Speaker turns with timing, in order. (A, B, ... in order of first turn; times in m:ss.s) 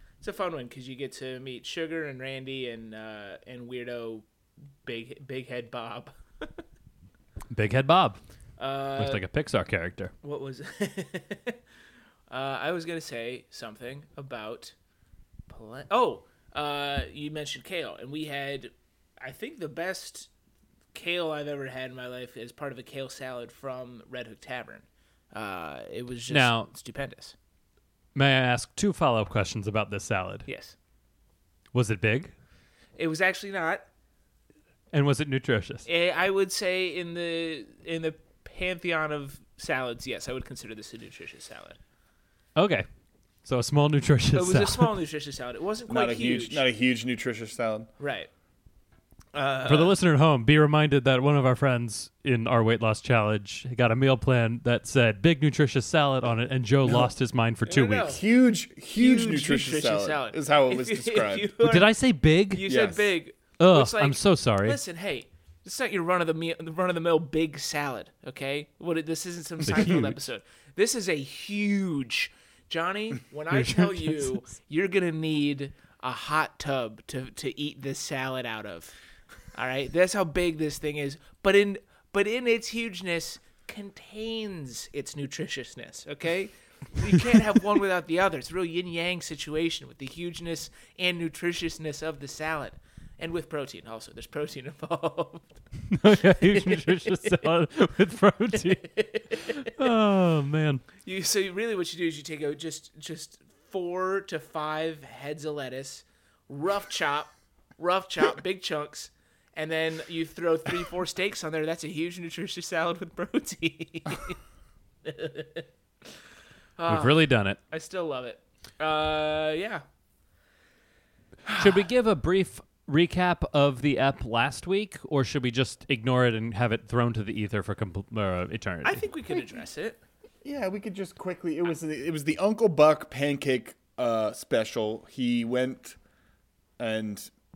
0:00.2-0:04.2 A
0:04.8-0:06.6 A
0:07.5-0:08.2 B
0:08.6-0:09.2 A
0:09.0-0:10.1 B
0:10.2-0:11.6 A
0:12.3-0:14.7 A
0:15.5-0:20.3 A
0:20.9-0:27.3 A
0:26.3-0:26.7 B
0:28.2-0:30.5 B
0:30.5-0:30.8 A
0:31.7-0:32.3 B
0:33.0-0:33.8 A
0:34.9-0:35.9 B
0:35.9-0:41.8 A
0:42.6-0:42.9 B
0:43.4-0:44.9 B
0:44.4-0:46.7 A
0:45.9-0:47.9 C
0:48.0-0:48.3 A
0:49.3-0:50.0 A
0:49.7-0:58.1 B
0:57.6-0:58.2 A
0:58.1-1:01.5 C
0:58.9-1:01.9 A
1:01.6-1:02.6 B
1:02.5-1:19.0 A
1:02.7-1:03.1 C
1:03.6-1:04.8 B
1:09.7-1:10.2 B
1:13.5-1:14.3 B
1:19.5-1:35.6 A
1:35.9-1:40.8 B
1:36.1-1:37.4 A
1:38.6-1:39.7 A
1:41.0-1:54.4 A
1:55.0-1:55.7 A
1:56.8-1:59.8 A
1:56.9-1:57.6 B
2:01.5-2:09.0 B
2:08.8-2:10.0 A
2:10.4-2:16.0 C
2:16.8-2:17.3 C